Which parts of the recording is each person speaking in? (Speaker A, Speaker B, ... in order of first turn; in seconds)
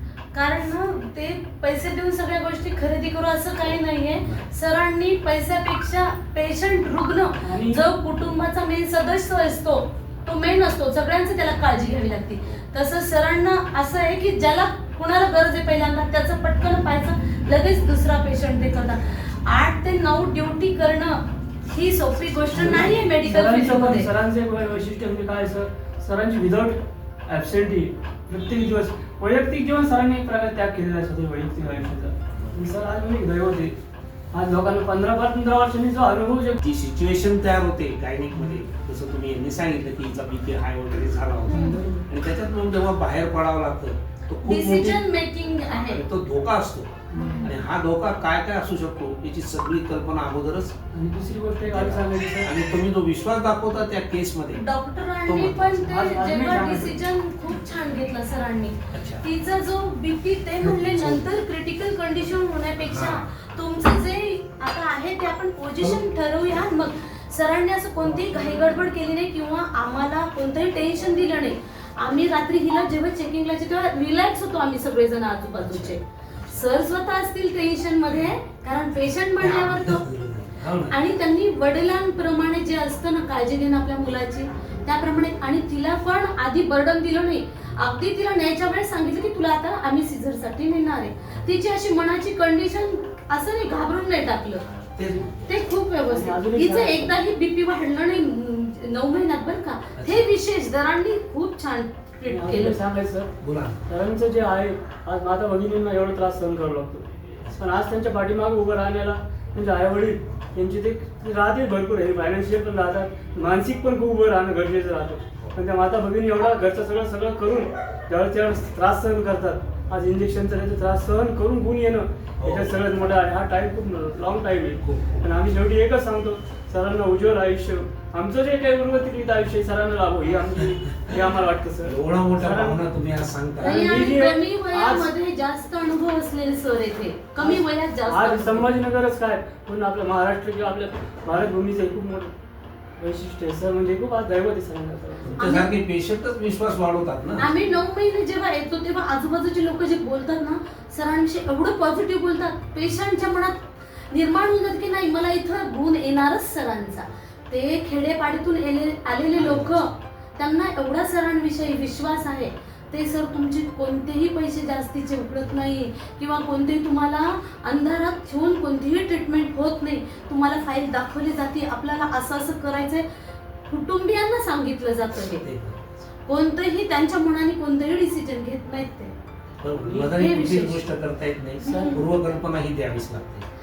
Speaker A: 0.3-24.1, 41.5-41.8, 44.4-46.0, 47.1-47.5, 54.5-80.0, 80.8-94.7, 95.4-102.8, 133.6-138.8, 145.3-145.7, 147.3-173.0, 173.7-175.5, 176.2-179.2, 180.1-180.8, 181.6-182.0
Speaker B: 4.2-4.5, 22.3-23.2, 32.3-32.6, 36.6-45.0, 45.8-50.7, 51.7-54.6, 55.2-55.8, 58.9-59.2, 60.6-61.3, 62.8-63.2, 75.6-76.6, 79.4-81.0, 91.3-91.6, 94.8-95.5, 100.0-100.3, 103.4-103.8, 122.4-122.8, 124.8-125.2, 131.8-133.8, 145.2-147.5, 159.3-159.9, 175.4-176.0, 179.6-183.4
Speaker C: 7.4-7.8, 22.5-33.8, 34.3-36.6, 38.3-38.6, 41.5-42.1, 47.1-47.5, 50.9-52.5, 55.8-57.0, 96.1-97.1, 102.3-103.3, 103.9-132.8, 133.6-135.1, 137.4-142.3, 143.0-145.4, 179.7-180.2, 181.7-182.0